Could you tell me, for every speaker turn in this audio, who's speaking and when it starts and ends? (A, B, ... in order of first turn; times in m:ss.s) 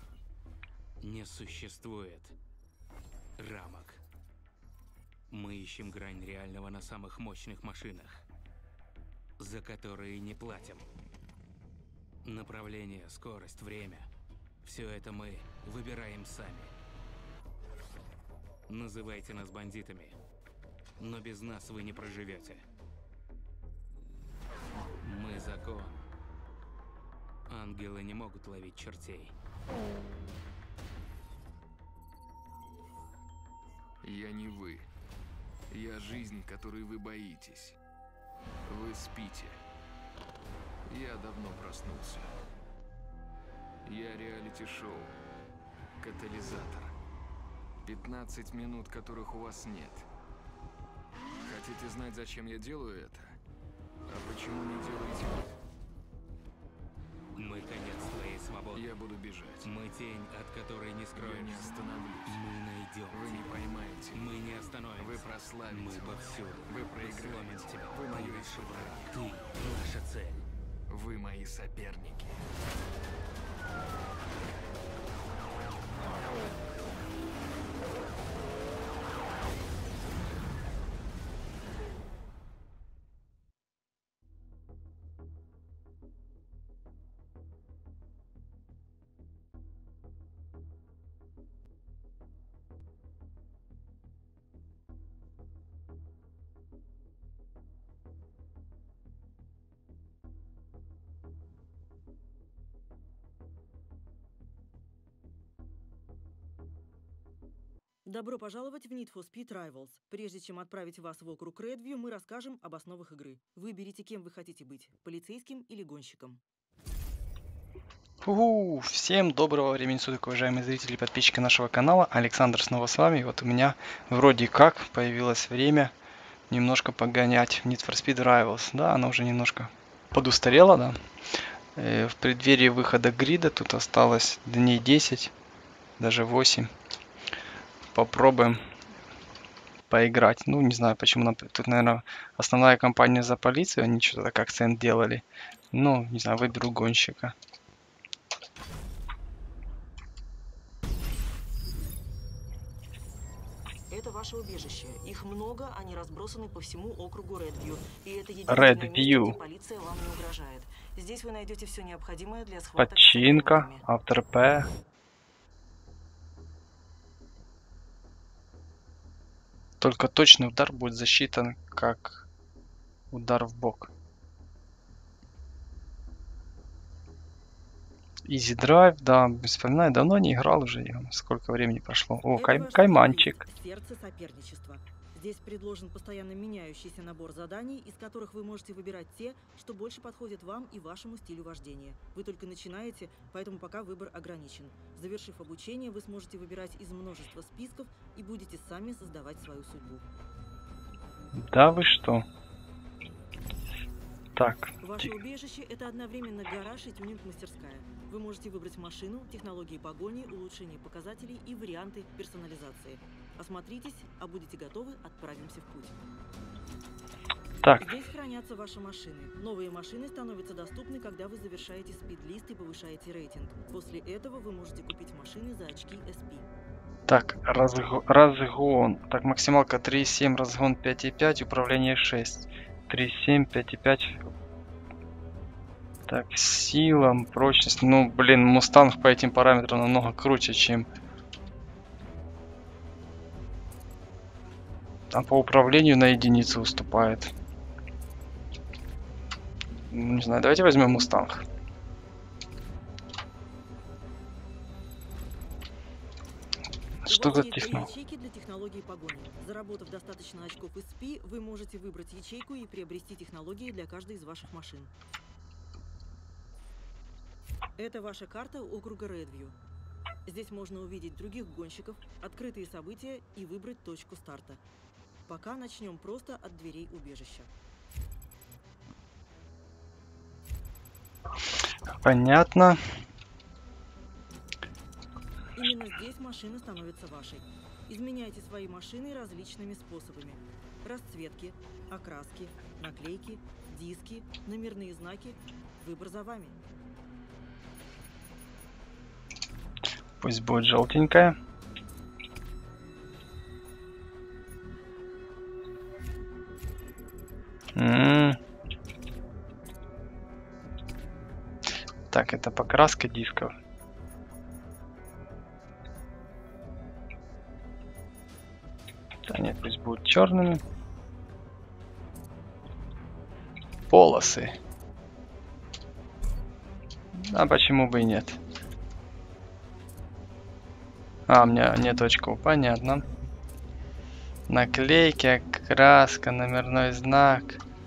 0:01.0-0:02.4 A
0:03.4-0:04.0 A
0:05.3-0:08.2 A
0:09.4-0:10.9 A
0:12.2-0:14.1 A
0:14.6-0:16.7 A
0:18.7-0:20.2 A
0:21.0-0:22.6 A
0:25.0-0:26.1 A
0:27.5-0:29.3 A
0:34.0-0:34.9 B
0:35.7-0:37.8 B
0:38.7-0:39.6 B
0:40.9-0:42.3 B
0:43.8-0:45.1 B
0:46.0-0:47.0 B
0:47.8-0:50.1 B
0:51.4-0:53.4 B
0:54.1-0:55.5 B
0:57.4-0:58.9 A
0:58.8-0:59.7 B
0:59.6-1:10.5 A
1:01.2-1:02.4 B
1:03.1-1:04.4 B
1:05.0-1:09.1 B
1:10.9-1:12.4 B
1:48.1-1:56.4 C
1:58.2-2:05.9 D
2:06.5-2:11.0 D
2:11.8-2:15.3 D
2:16.0-2:16.7 D
2:17.9-2:18.6 D
2:19.9-2:27.4 D
2:33.9-2:43.8 C
2:38.5-2:39.4 D
2:42.8-2:44.7 D
2:49.8-2:52.3 D
2:53.1-2:53.9 D
2:58.3-3:03.4 D
3:02.3-3:20.1 C
3:21.4-3:22.3 D
3:24.4-3:25.1 D
3:24.8-3:36.0 C
3:37.6-3:37.9 D
3:37.8-3:46.5 C
3:47.1-3:54.2 D
3:56.1-4:00.9 D
4:05.1-4:07.3 D
4:09.9-4:11.4 D
4:17.0-4:17.9 D
4:17.1-4:24.9 C
4:27.8-4:29.6 C
4:30.3-4:34.6 C
4:35.3-4:37.5 C
4:42.0-4:42.8 D
4:45.6-4:56.6 C
5:00.2-5:01.4 D
5:07.8-5:08.4 D
5:12.1-5:13.5 D
5:19.3-5:20.6 D
5:23.9-5:24.6 D
5:27.2-5:28.4 D
5:31.3-5:33.1 D
5:34.5-5:37.6 D